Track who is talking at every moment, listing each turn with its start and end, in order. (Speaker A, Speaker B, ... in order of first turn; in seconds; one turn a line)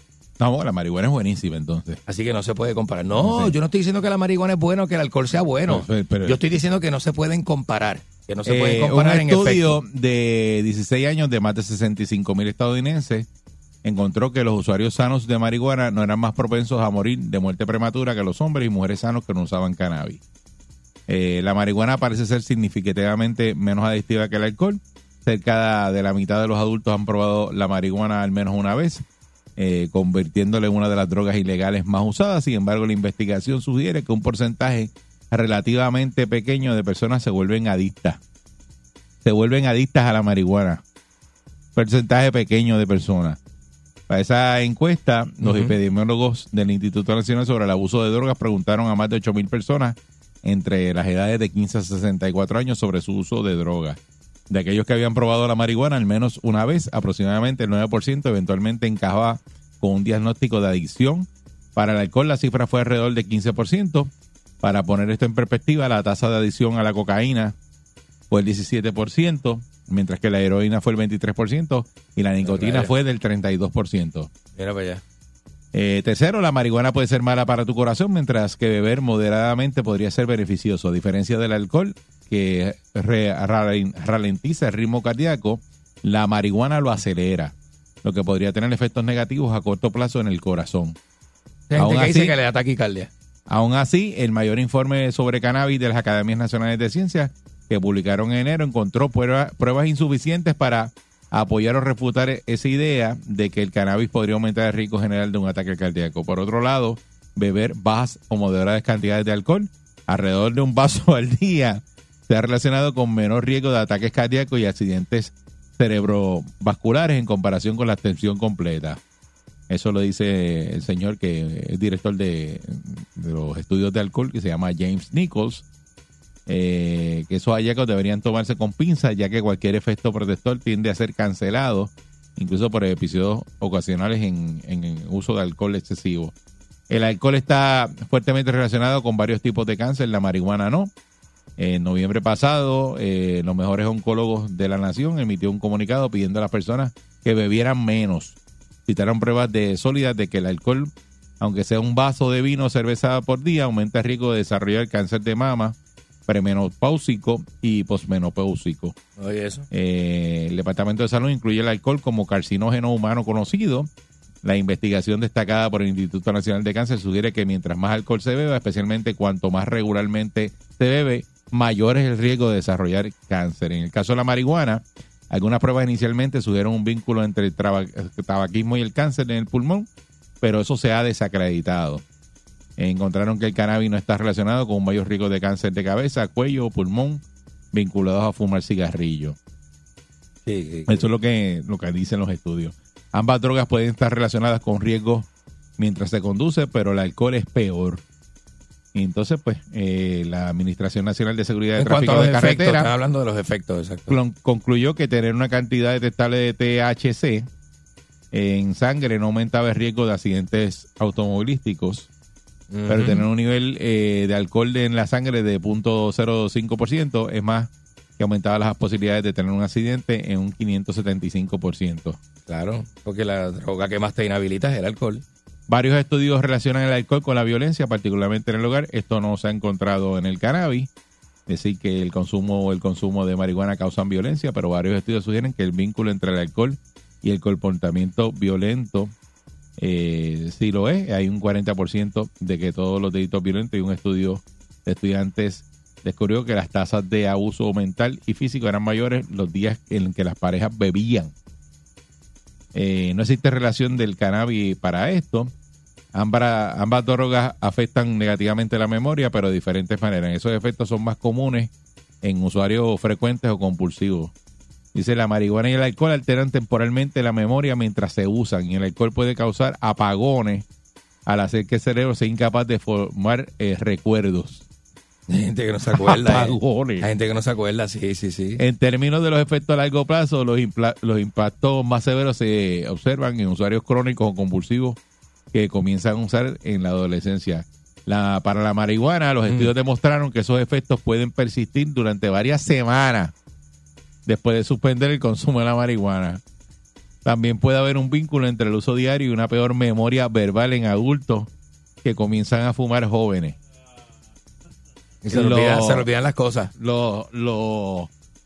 Speaker A: 0.4-2.0
Speaker B: 2.1-9.8
Speaker A: 3.1-3.5
Speaker A: 5.7-6.4
Speaker A: 8.4-13.3
Speaker A: 13.8-20.2
Speaker A: 21.1-29.0
Speaker A: 29.6-38.2
Speaker A: 39.2-40.8
Speaker A: 41.8-43.4
Speaker A: 44.1-54.0
Speaker B: 45.4-45.7
Speaker A: 54.5-64.1
Speaker A: 64.6-67.5
Speaker A: 68.3-74.3
Speaker B: 72.4-72.9
Speaker B: 74.5-75.0
Speaker A: 75.7-91.0
Speaker B: 91.7-93.1
Speaker A: 91.8-92.3
Speaker A: 93.5-119.0
Speaker A: 119.7-125.6
Speaker A: 126.5-136.3
Speaker A: 136.9-140.9
Speaker A: 141.6-155.8
Speaker A: 156.3-158.9
Speaker B: 159.2-159.7
Speaker A: 159.7-163.9
Speaker A: 164.4-179.9
Speaker A: 180.4-182.0
Speaker A: 182.8-189.4
Speaker B: 190.4-191.1
Speaker A: 190.9-195.2
Speaker A: 195.8-198.0
Speaker A: 198.9-202.9
Speaker B: 201.8-204.2
Speaker A: 204.1-207.5
Speaker A: 208.3-212.1
Speaker B: 212.7-213.2
Speaker A: 212.9-222.2
Speaker B: 222.5-225.2
Speaker A: 225.7-230.9
Speaker A: 231.5-239.1
Speaker A: 239.8-251.3
Speaker A: 252.7-255.5
Speaker A: 256.1-261.7
Speaker A: 262.2-264.3
Speaker A: 264.9-270.6
Speaker A: 271.2-274.6
Speaker B: 275.3-278.6
Speaker A: 275.9-277.1
Speaker A: 278.6-285.0
Speaker A: 285.5-293.3
Speaker A: 294.2-296.4
Speaker A: 297.2-301.5
Speaker A: 302.0-303.5
Speaker B: 305.2-306.7
Speaker A: 305.3-306.1
Speaker A: 306.8-308.1